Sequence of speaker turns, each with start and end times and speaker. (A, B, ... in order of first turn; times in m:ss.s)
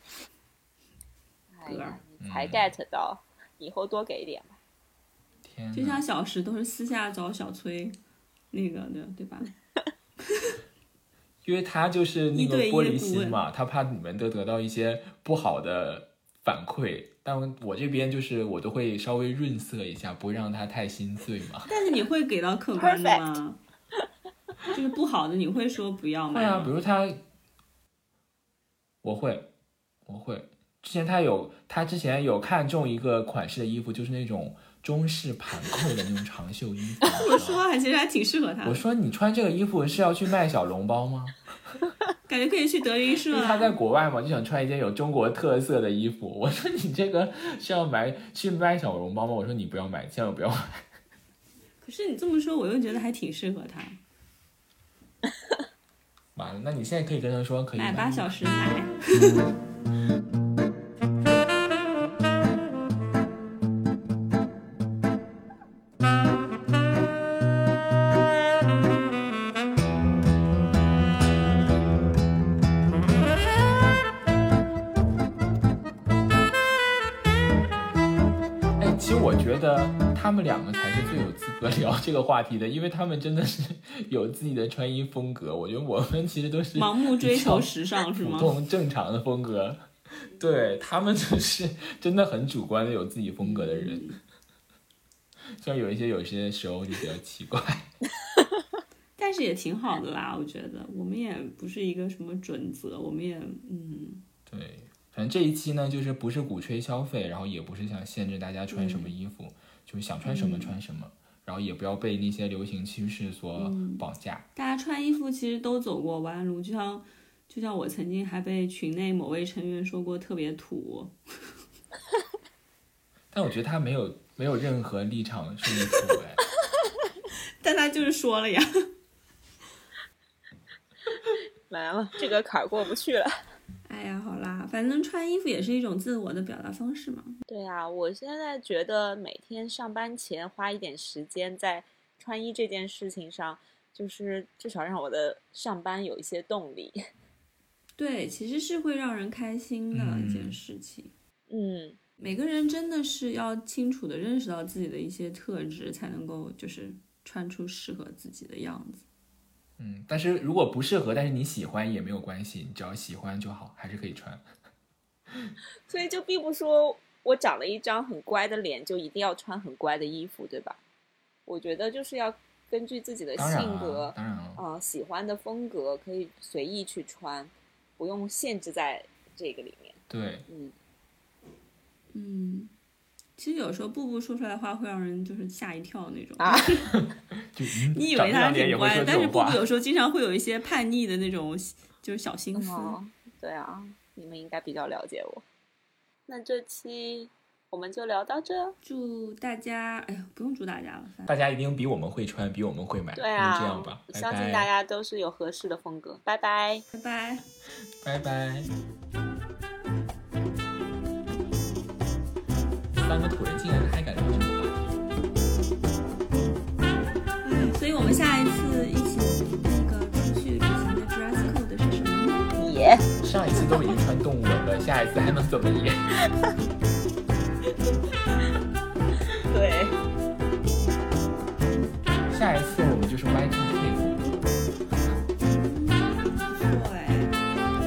0:01.5-0:04.6 A
0:01.6-0:02.0 B
0:02.2-0:02.7 C
0:05.4-0:06.0 C
0:05.7-0:08.0 B
0:08.5-0:09.5 B
0:11.4-0:21.7 C
0:12.3-0:13.4 B
0:21.7-0:23.6 B
0:22.7-0:23.2 A
0:24.7-0:26.7 B
0:26.3-0:27.2 C
0:29.0-0:29.5 C
0:30.0-0:37.6 C
0:37.0-0:38.8 B
0:38.6-0:41.4 C
0:42.3-0:43.8 B
0:43.3-0:50.8 C
0:51.8-0:54.0 B
0:56.3-0:58.3 C
0:57.8-0:59.5 B
1:18.8-1:29.8 C
1:26.7-1:28.5 B
1:30.4-1:34.0 C
1:33.4-1:34.2 B
1:35.6-1:37.9 C
1:39.2-1:44.2 B
1:44.5-1:54.4 C
1:48.7-1:49.1 B
1:50.2-1:50.8 B
1:53.6-2:01.2 B
2:03.3-2:06.4 C
2:07.6-2:08.9 B
2:11.7-2:13.3 A
2:13.8-2:17.4 B
2:17.5-2:27.0 A
2:28.0-2:31.1 B
2:29.9-2:30.6 C
2:31.5-2:32.0 A
2:32.2-2:39.0 B
2:39.8-2:44.4 C
2:45.9-2:50.8 A
2:51.5-3:00.7 A
2:53.4-2:54.6 C
3:00.1-3:00.4 C
3:02.1-3:02.7 B
3:03.4-3:06.9 B
3:06.4-3:06.8 A
3:06.9-3:09.6 C
3:07.9-3:13.0 B
3:12.6-3:15.4 A
3:16.3-3:18.8 A
3:18.8-3:21.3 B
3:21.2-3:24.7 C
3:23.2-3:26.8 A
3:26.9-3:27.4 B
3:28.0-3:28.7 C
3:33.0-3:34.8 C
3:37.4-3:42.5 B
3:42.6-3:43.1 A
3:43.2-3:46.1 C
3:49.4-3:49.9 A
3:52.3-3:54.4 C
3:55.4-3:57.4 B